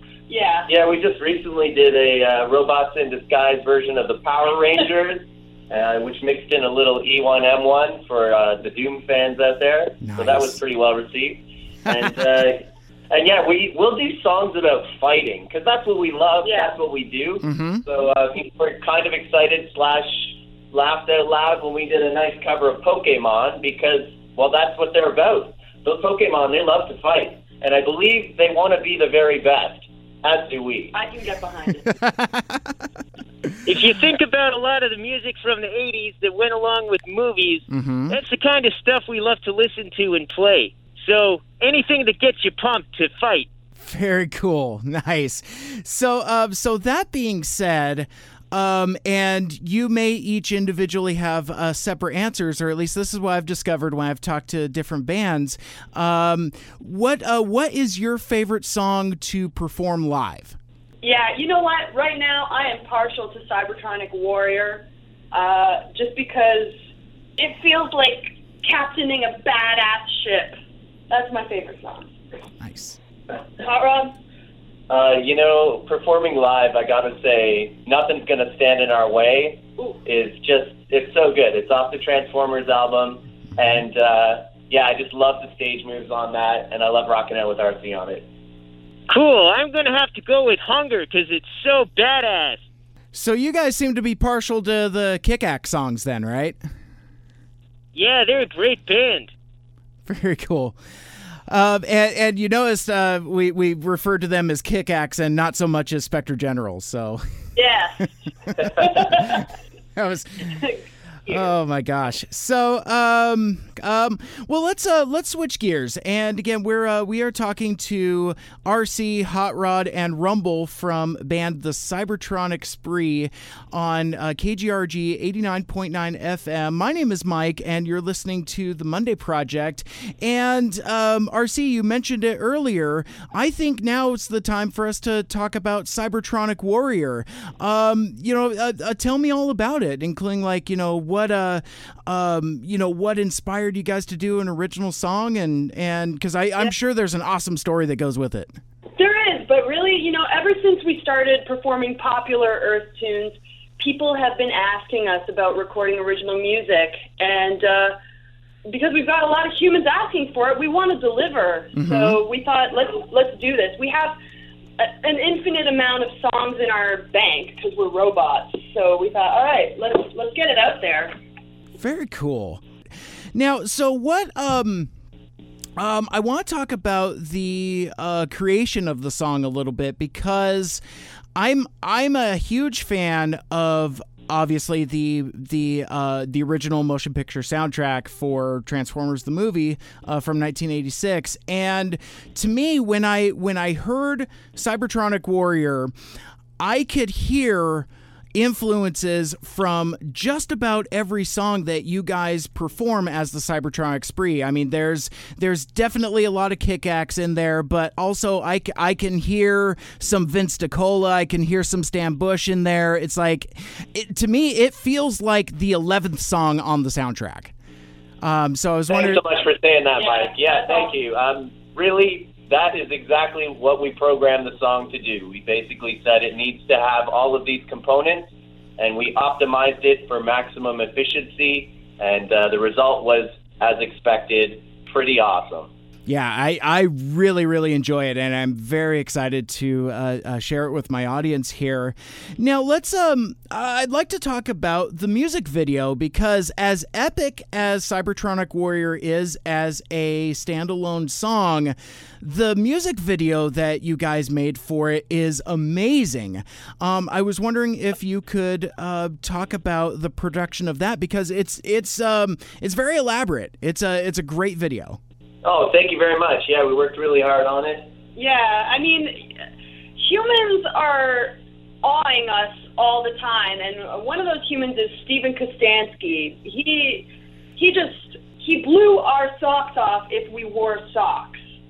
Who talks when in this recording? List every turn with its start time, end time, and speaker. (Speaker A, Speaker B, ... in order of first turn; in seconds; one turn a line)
Speaker A: 0.3-0.7
Speaker B: 0.7-30.9
Speaker C: 10.0-10.6
Speaker A: 16.4-16.7
Speaker C: 17.4-17.8
Speaker A: 30.9-31.9
Speaker C: 32.0-32.7
Speaker D: 33.6-43.5
Speaker C: 37.7-38.2
Speaker C: 43.8-60.6
Speaker A: 61.0-66.8
Speaker A: 67.4-70.6
Speaker A: 71.1-72.1
Speaker C: 72.6-73.0
Speaker A: 73.6-74.1
Speaker B: 74.9-88.3
Speaker D: 89.1-92.6
Speaker C: 93.1-96.6
Speaker D: 97.9-99.3
Speaker C: 100.0-100.8
Speaker C: 101.5-107.2
Speaker A: 107.5-108.0
Speaker A: 108.6-109.4
Speaker C: 108.6-110.6
Speaker A: 110.5-111.4
Speaker C: 111.3-148.5
Speaker A: 149.0-158.0
Speaker A: 158.7-164.2
Speaker C: 161.7-162.2
Speaker A: 164.8-171.1
Speaker C: 171.8-172.6
Speaker C: 173.3-174.9
Speaker C: 175.8-180.8
Speaker C: 181.3-195.9
Speaker C: 196.6-217.5
Speaker C: 218.2-219.2
Speaker B: 218.9-235.7
Speaker A: 220.0-220.9
Speaker C: 236.1-265.0
Speaker B: 265.4-267.9
Speaker A: 268.1-269.3
Speaker A: 270.0-281.4